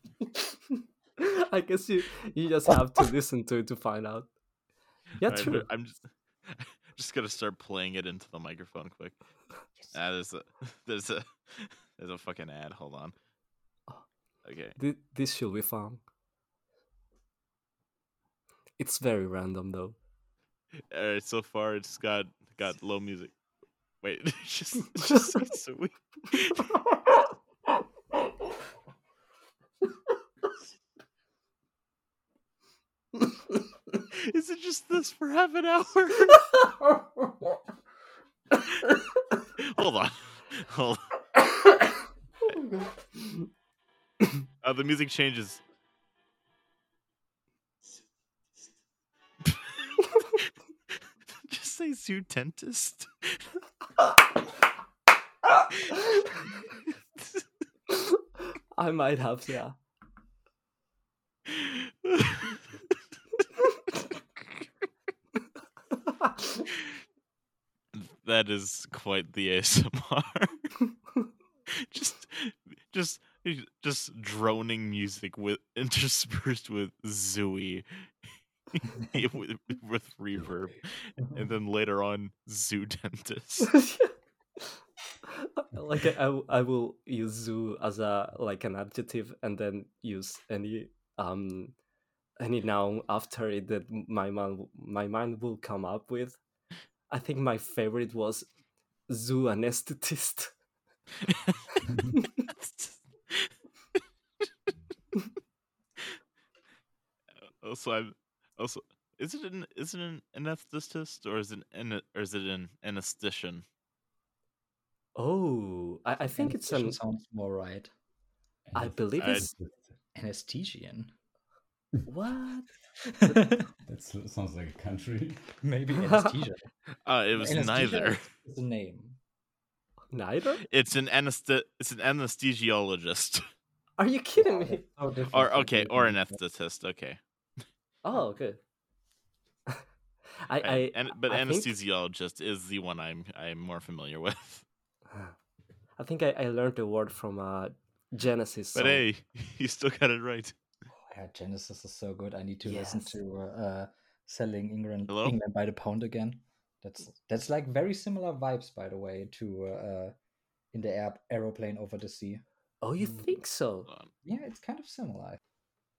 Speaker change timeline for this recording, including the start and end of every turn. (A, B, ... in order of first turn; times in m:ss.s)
0:00.4-0:04.3 A
0:05.2-0:05.7 A
0:05.2-0:09.4 B
0:09.9-0:13.2 B
0:14.4-0:14.8 B
0:14.8-0:16.0 A
0:18.8-0:20.0 A
0:20.9-0:23.4 B
0:24.0-0:26.7 B
0:34.1-0:36.4 B
0:36.5-0:37.6 C
0:39.6-0:41.0 B
0:44.6-0:45.6 B
0:51.4-0:53.4 B
0:57.9-0:58.2 A
0:58.8-0:59.8 A
1:01.5-1:02.4 B
1:07.9-1:10.8 B
1:11.8-1:17.9 B
1:18.7-1:23.8 B
1:23.7-1:24.7 A
1:25.4-1:31.8 A
1:32.4-1:36.4 A
1:37.1-1:38.5 A
1:39.1-1:40.5 A
1:41.2-1:41.6 B
1:42.5-1:44.0 B
1:47.6-1:53.6 B
1:55.2-1:57.0 A
1:56.4-1:57.9 C
1:58.7-2:00.0 D
1:58.8-1:59.5 A
1:59.2-1:59.5 B
2:00.2-2:01.1 C
2:02.1-2:02.7 A
2:03.2-2:03.7 C
2:03.9-2:05.6 D
2:05.6-2:06.7 C
2:06.0-2:06.3 A
2:07.0-2:08.2 B
2:07.3-2:09.2 C
2:10.1-2:10.6 A
2:10.6-2:13.4 B
2:14.0-2:14.8 A
2:14.4-2:16.4 C
2:15.3-2:17.2 B
2:18.0-2:18.6 A
2:20.4-2:21.7 A
2:20.6-2:24.6 B
2:26.0-2:29.0 A
2:28.8-2:30.6 B
2:31.0-2:40.2 C
2:32.6-2:33.1 A
2:35.1-2:35.4 B
2:40.7-2:42.4 C
2:42.8-2:43.9 A
2:44.2-2:45.4 C